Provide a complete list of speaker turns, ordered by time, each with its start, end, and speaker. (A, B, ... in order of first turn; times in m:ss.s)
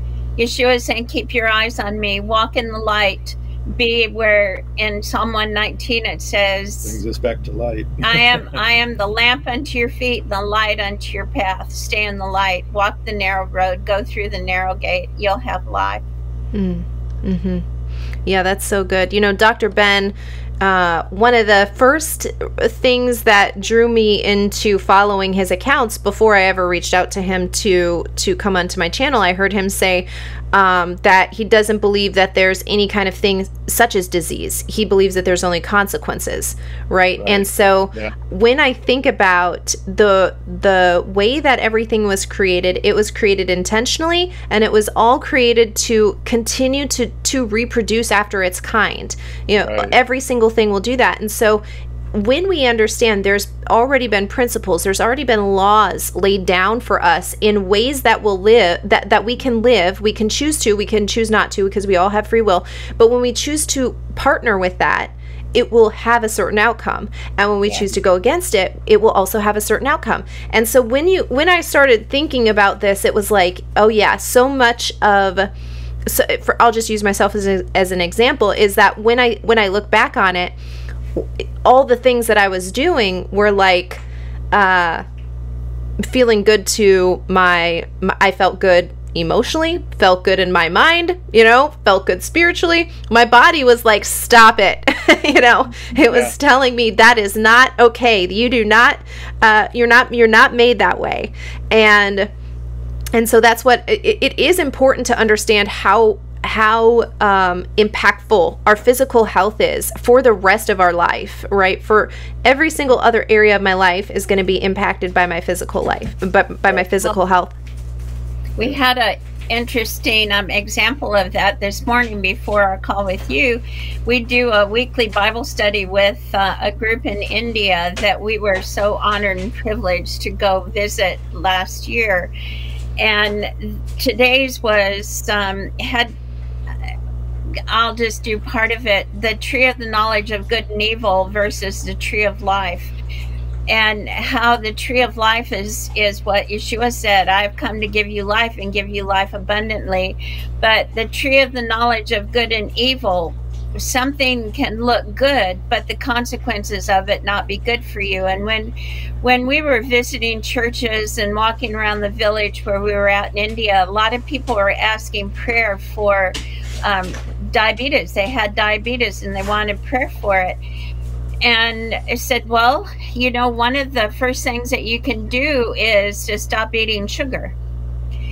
0:00.4-0:07.0 A
0:06.8-0:08.6 B
0:08.0-0:16.0 A
0:16.5-0:17.6 C
0:18.2-0:51.6 C
0:37.2-0:38.1 B
0:49.6-0:50.0 B
0:52.1-1:15.5 C
1:16.0-1:20.5 C
1:21.2-1:25.0 C
1:26.0-1:42.3 C
1:36.1-1:36.3 B
1:43.1-1:57.5 C
1:58.6-2:12.3 A
2:13.0-2:16.1 A
2:17.7-2:22.9 A
2:23.7-2:50.6 A
2:51.4-2:57.5 A